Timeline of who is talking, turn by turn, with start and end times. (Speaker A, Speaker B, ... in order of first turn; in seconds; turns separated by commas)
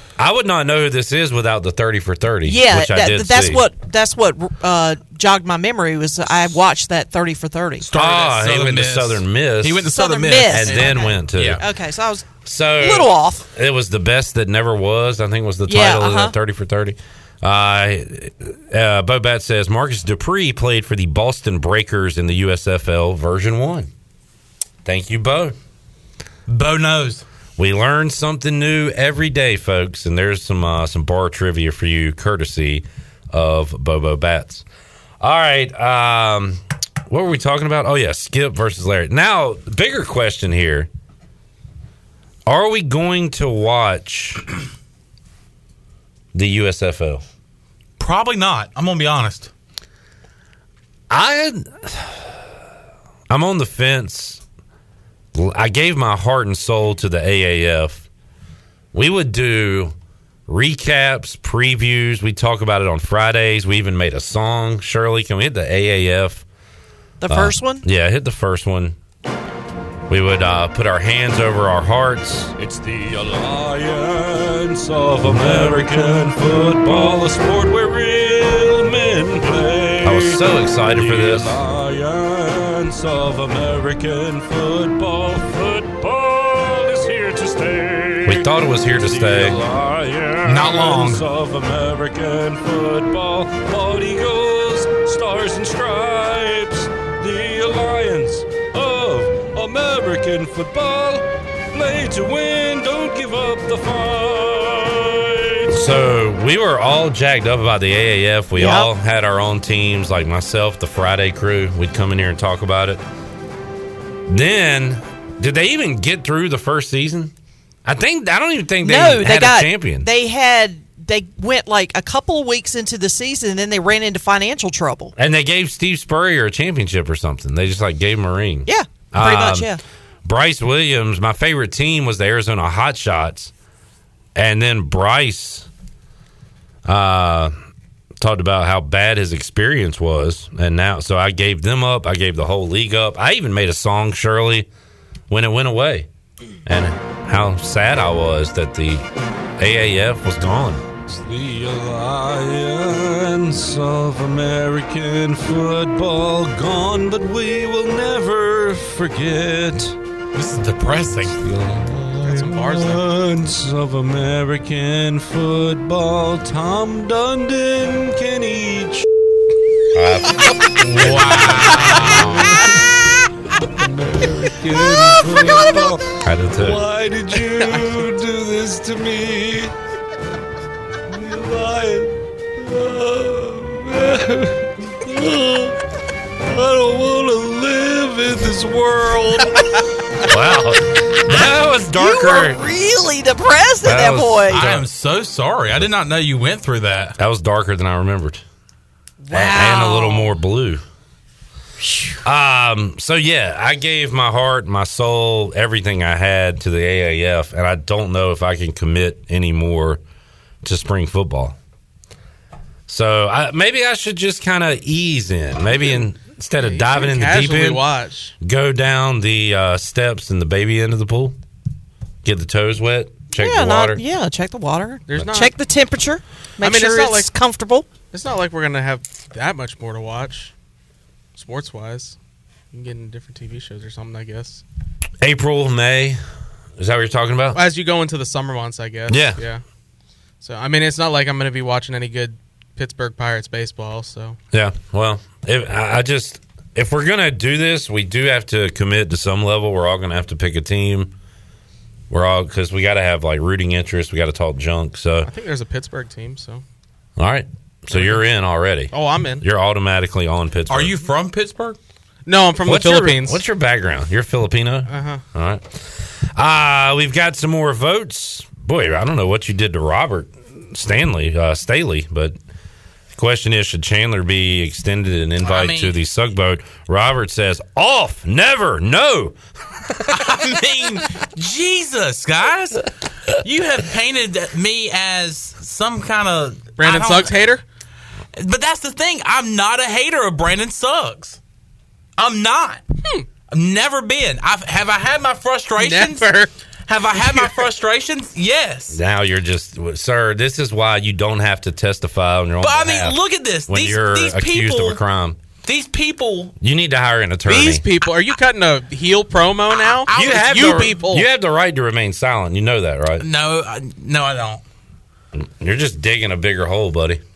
Speaker A: 0.2-3.6, Speaker B: 2.5-7.9, Speaker C: 7.8-11.6, Speaker A: 7.9-9.9, Speaker B: 9.9-12.3, Speaker A: 10.5-11.6, Speaker A: 12.4-23.9, Speaker B: 12.8-13.5, Speaker B: 15.7-16.4, Speaker A: 24.9-25.6, Speaker C: 26.5-27.2, Speaker A: 27.6-34.6, Speaker A: 35.2-40.9, Speaker A: 42.5-44.5, Speaker A: 46.3-47.2, Speaker C: 48.0-49.5, Speaker A: 51.1-52.3, Speaker A: 53.3-54.4, Speaker A: 55.3-58.0, Speaker A: 58.9-59.9, Speaker A: 60.5-66.5, Speaker B: 67.2-67.8, Speaker A: 67.3-69.0, Speaker A: 70.1-72.6, Speaker D: 72.6-80.4, Speaker A: 74.9-78.2, Speaker A: 80.0-81.6, Speaker D: 80.9-101.2, Speaker A: 88.2-89.7, Speaker A: 90.2-104.2, Speaker C: 90.4-91.3, Speaker D: 101.8-105.6, Speaker A: 105.7-113.0, Speaker B: 108.6-108.9, Speaker A: 114.3-117.3, Speaker A: 117.8-120.1, Speaker B: 118.8-125.1, Speaker A: 125.2-133.5, Speaker B: 128.7-129.8, Speaker A: 134.3-135.7, Speaker A: 136.8-137.5, Speaker A: 138.2-144.7, Speaker A: 145.3-146.1, Speaker A: 146.7-149.0, Speaker A: 149.6-160.0, Speaker C: 160.3-161.4, Speaker A: 161.4-169.1, Speaker E: 162.2-163.1, Speaker A: 169.9-172.2, Speaker C: 170.8-172.6, Speaker D: 174.0-176.0, Speaker A: 174.2-179.7, Speaker D: 176.7-177.4, Speaker E: 177.6-177.8, Speaker D: 178.2-179.7, Speaker D: 181.2-182.1, Speaker A: 181.3-182.1, Speaker D: 182.6-184.6, Speaker D: 185.1-185.7, Speaker A: 185.1-185.4, Speaker A: 186.5-189.4, Speaker D: 186.5-189.2, Speaker A: 190.3-192.6, Speaker B: 191.9-194.6, Speaker A: 193.8-194.9, Speaker C: 194.5-197.2, Speaker A: 197.2-198.4, Speaker B: 199.2-200.3, Speaker A: 199.3-200.8, Speaker B: 201.8-202.2, Speaker A: 202.2-210.0, Speaker A: 210.6-211.6, Speaker A: 212.9-217.8, Speaker E: 216.6-218.3, Speaker A: 218.4-221.4, Speaker A: 222.2-224.0, Speaker B: 223.4-227.9, Speaker E: 225.1-225.5, Speaker E: 226.6-227.3, Speaker E: 228.1-230.5, Speaker E: 231.3-232.2, Speaker E: 232.7-234.6, Speaker A: 235.2-236.2, Speaker A: 236.8-237.6, Speaker E: 237.5-239.6, Speaker A: 239.1-239.4, Speaker E: 240.4-244.4, Speaker A: 244.5-251.1, Speaker A: 252.1-255.3, Speaker E: 255.2-256.6, Speaker A: 257.2-260.9, Speaker E: 257.9-258.2, Speaker E: 258.9-259.4, Speaker C: 260.7-261.8, Speaker E: 262.3-263.4, Speaker A: 262.6-265.7, Speaker E: 264.9-265.2, Speaker A: 266.4-272.4, Speaker A: 273.2-279.4, Speaker C: 275.4-275.9, Speaker C: 280.1-287.5, Speaker E: 286.8-287.6, Speaker C: 288.4-291.4, Speaker C: 292.2-292.8, Speaker C: 293.5-299.0, Speaker E: 295.8-296.5, Speaker A: 298.9-305.4, Speaker C: 302.6-305.0, Speaker C: 305.6-306.5, Speaker A: 306.6-307.9, Speaker E: 307.5-311.3, Speaker C: 309.8-311.0, Speaker A: 310.1-313.3, Speaker C: 313.2-314.6, Speaker A: 315.4-317.2